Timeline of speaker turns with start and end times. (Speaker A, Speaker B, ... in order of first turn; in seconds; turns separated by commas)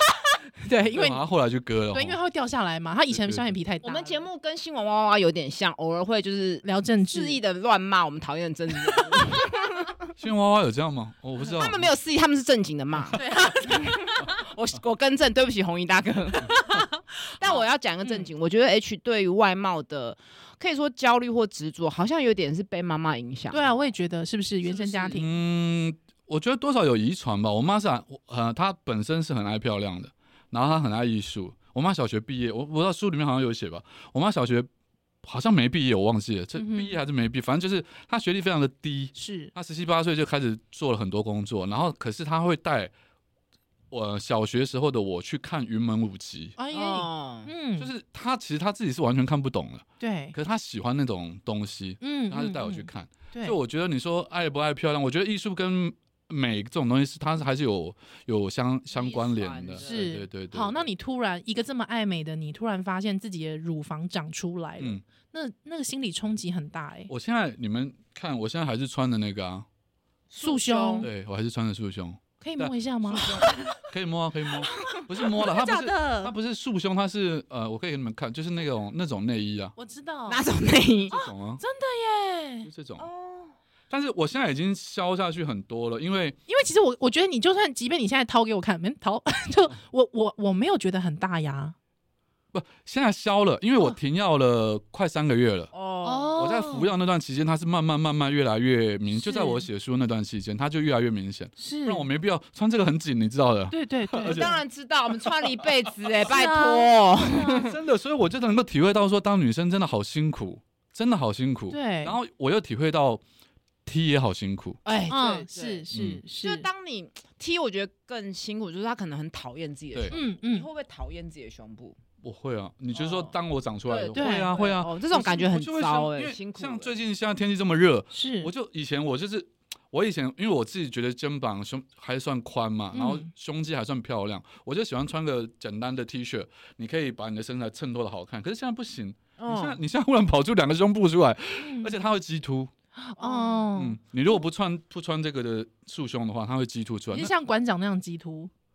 Speaker A: 0.6-1.2, Speaker B: 0.9-2.2, Speaker A: 1.9-4.3, Speaker B: 3.1-3.5, Speaker C: 3.8-9.9, Speaker A: 6.6-7.4, Speaker B: 10.2-11.9, Speaker C: 11.4-16.6, Speaker A: 13.2-14.3, Speaker A: 16.5-18.3, Speaker C: 17.4-23.7, Speaker A: 23.5-25.3, Speaker C: 24.6-25.2, Speaker B: 25.1-34.7, Speaker B: 35.2-42.9, Speaker A: 36.6-37.0, Speaker A: 39.1-39.5, Speaker B: 43.9-46.6, Speaker A: 46.6-47.9, Speaker C: 46.7-47.5, Speaker B: 47.8-60.9, Speaker A: 50.0-50.4, Speaker A: 52.0-53.6, Speaker C: 58.9-60.1, Speaker A: 59.8-67.1, Speaker B: 67.1-69.7, Speaker C: 70.3-71.1, Speaker A: 70.4-71.1, Speaker B: 71.0-79.8, Speaker A: 72.4-73.8, Speaker C: 73.2-73.6, Speaker C: 74.7-75.0, Speaker A: 74.8-76.3, Speaker A: 79.8-80.5, Speaker C: 80.3-81.1, Speaker B: 81.1-81.6, Speaker A: 81.1-82.7, Speaker B: 82.7-83.1, Speaker C: 83.0-83.5, Speaker B: 83.9-86.4, Speaker A: 86.5-91.8, Speaker B: 92.5-95.7, Speaker C: 95.7-96.4, Speaker A: 96.0-96.9, Speaker B: 96.4-104.6, Speaker A: 99.1-99.7, Speaker A: 101.6-102.1, Speaker A: 103.7-104.4, Speaker C: 104.2-107.8, Speaker A: 106.3-107.7, Speaker B: 107.4-113.2, Speaker A: 111.7-112.2, Speaker B: 113.9-114.8, Speaker C: 114.9-115.9, Speaker A: 115.0-116.7, Speaker B: 115.9-116.2, Speaker C: 116.4-122.0, Speaker A: 120.1-120.7, Speaker B: 122.2-142.7, Speaker C: 123.0-123.3, Speaker C: 123.9-127.0, Speaker A: 124.2-124.5, Speaker A: 128.1-128.5, Speaker A: 132.9-133.3, Speaker C: 139.4-139.8, Speaker A: 141.6-141.9, Speaker A: 143.0-144.0, Speaker C: 143.2-143.7, Speaker B: 143.8-147.3, Speaker A: 147.1-148.5